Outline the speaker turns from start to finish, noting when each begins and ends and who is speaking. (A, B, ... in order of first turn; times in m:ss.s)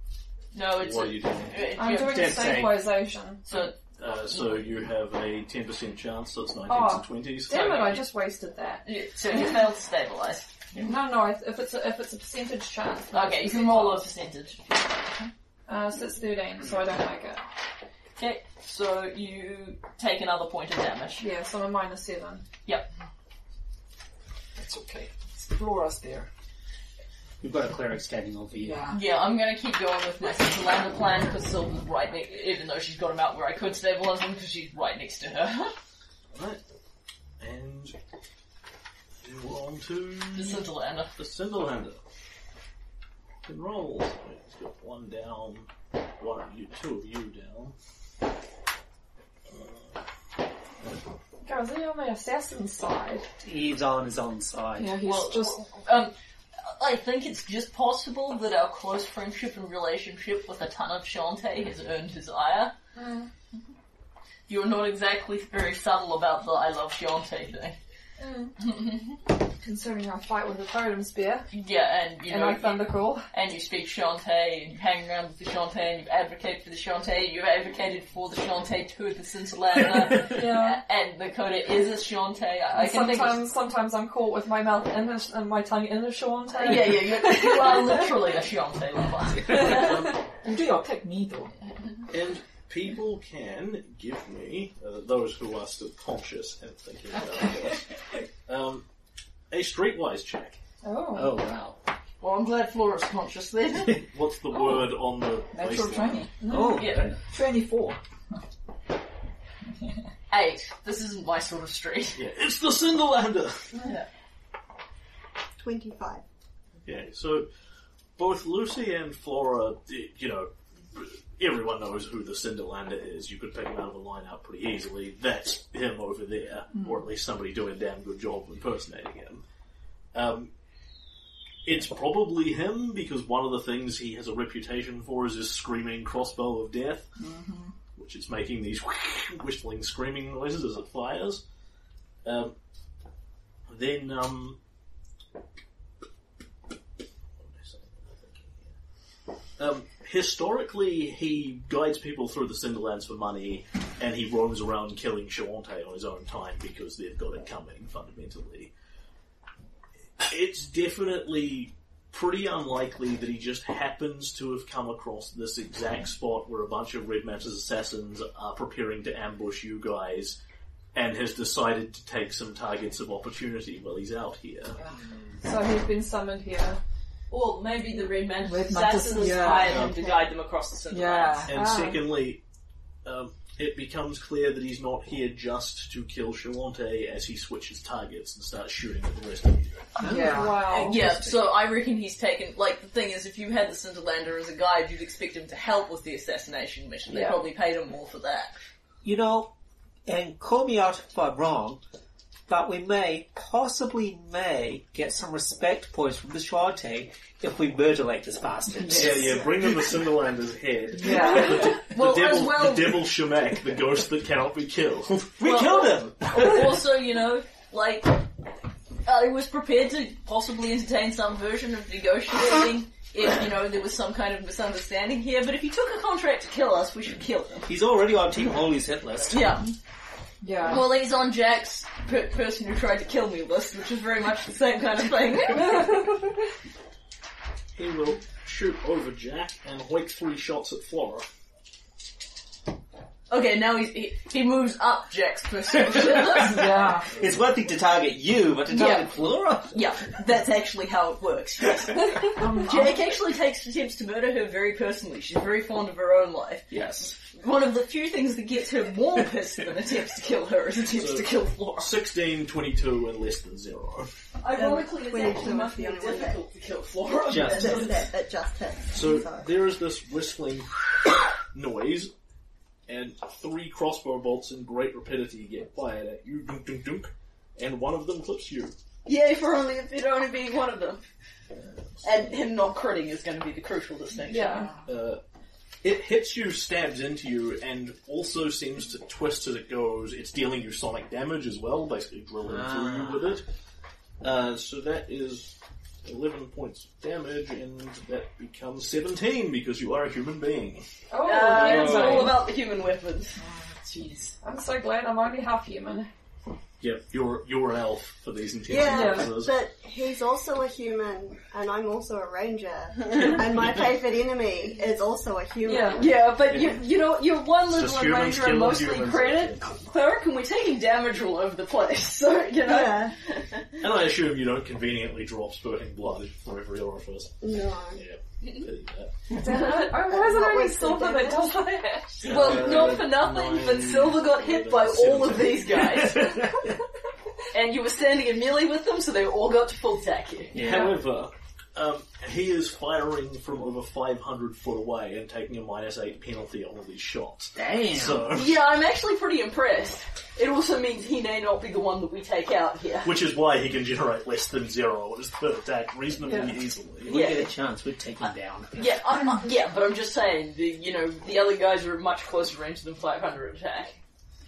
0:00.5-0:02.5 A
0:00.8-0:02.6 B
0:01.8-0:03.4 C
0:02.1-0:02.8 D
0:03.4-0:03.8 A
0:04.0-0:08.0 B
0:04.3-0:04.7 A
0:06.7-0:09.6 C
0:08.8-0:10.5 A
0:10.8-0:14.0 C
0:13.1-0:15.3 A
0:15.7-0:17.4 C
0:18.2-0:21.2 A
0:21.2-0:22.4 C
0:24.5-0:26.3 E
0:27.4-0:28.9 D
0:28.6-0:29.0 E
0:28.9-0:35.7 A
0:36.3-0:36.6 B
0:37.4-0:37.9 B
0:39.2-0:40.6 B
0:40.3-0:41.1 A
0:41.1-0:42.0 B
0:43.4-0:47.7 B
0:49.5-0:50.0 B
0:51.4-0:53.3 C
0:53.4-0:55.0 D
0:54.8-0:55.6 E
0:55.0-0:56.1 A
0:56.7-1:02.7 A
1:02.9-1:03.3 C
1:04.5-1:07.8 A
1:08.2-1:08.6 C
1:08.6-1:09.2 A
1:09.6-1:11.5 C
1:11.5-1:23.5 A
1:12.3-1:13.3 C
1:20.2-1:20.8 C
1:22.7-1:28.1 C
1:26.5-1:30.1 A
1:29.5-1:30.2 B
1:29.5-1:31.6 E
1:32.1-1:38.8 B
1:39.5-1:40.6 B
1:40.8-1:41.4 C
1:41.1-1:41.8 D
1:42.2-1:44.0 A
1:44.0-1:46.3 B
1:45.5-1:48.0 E
1:46.4-1:46.8 C
1:46.4-1:47.2 D
1:46.7-1:47.1 A
1:50.3-1:52.2 A
1:52.1-1:53.7 B
1:53.7-1:54.1 A
1:55.6-1:56.2 F
1:56.8-1:57.5 B
1:58.2-2:09.4 B
2:10.1-2:10.5 B
2:11.6-2:17.1 B
2:17.2-2:17.7 E
2:17.9-2:21.4 B
2:22.2-2:22.5 B
2:23.7-2:24.6 B
2:27.4-2:28.7 B
2:29.6-2:38.7 B
2:40.2-2:50.4 B
2:50.9-2:54.8 B
2:55.4-2:56.8 C
2:57.3-3:01.5 A
2:58.4-2:59.9 E
2:59.6-3:00.0 B
2:59.8-3:00.2 F
3:00.9-3:01.8 E
3:01.5-3:02.4 B
3:01.5-3:02.0 C
3:03.0-3:10.0 B
3:10.0-3:11.5 D
3:10.0-3:10.8 E
3:10.0-3:11.0 C
3:10.6-3:18.5 A
3:17.1-3:17.4 C
3:19.0-3:19.5 D
3:20.0-3:21.8 D
3:22.5-3:29.4 D
3:28.8-3:29.3 E
3:28.9-3:36.8 B
3:30.9-3:31.8 E
3:31.1-3:33.1 A
3:35.4-3:38.3 A
3:39.0-3:47.7 A
3:47.6-3:49.6 D
3:49.3-3:49.7 A
3:50.4-3:50.9 E
3:50.6-3:56.0 A
3:57.7-4:01.3 B
4:03.3-4:06.9 A
4:06.0-4:06.4 D
4:06.3-4:07.1 E
4:07.0-4:09.9 D
4:08.7-4:09.2 A
4:09.7-4:21.9 A
4:12.3-4:13.0 E
4:16.7-4:17.2 D
4:21.0-4:21.3 B
4:21.8-4:24.1 B
4:24.4-4:28.0 A
4:24.5-4:26.4 F
4:27.3-4:28.0 D
4:27.4-4:29.5 F
4:28.9-4:32.1 B
4:32.9-4:38.7 B
4:39.0-4:41.0 A
4:41.6-4:42.3 B
4:42.0-4:44.7 A
4:44.3-4:44.7 C
4:44.5-4:44.8 E
4:44.8-4:45.2 B
4:45.8-4:53.4 B
4:52.4-4:53.3 D
4:54.2-5:00.8 B
5:01.1-5:02.4 C
5:01.2-5:03.4 A
5:01.8-5:02.3 E
5:03.4-5:04.4 E
5:04.4-5:06.1 C
5:06.8-5:09.5 B
5:08.7-5:16.2 F
5:08.8-5:09.3 C
5:13.2-5:13.8 B
5:15.6-5:16.1 C
5:15.7-5:23.8 A
5:17.7-5:19.8 B
5:22.6-5:23.2 F
5:23.8-5:29.2 B
5:27.4-5:28.0 F
5:29.3-5:32.3 C
5:29.8-5:31.5 F
5:32.2-5:35.8 B
5:32.2-5:36.4 A
5:36.0-5:36.7 D
5:37.5-5:40.6 A
5:40.5-5:41.0 D
5:40.5-5:48.6 B
5:47.5-5:48.3 D
5:48.3-5:53.2 A
5:53.0-5:57.2 B
5:57.0-5:59.0 D
5:57.1-5:57.5 A
5:58.7-6:04.0 A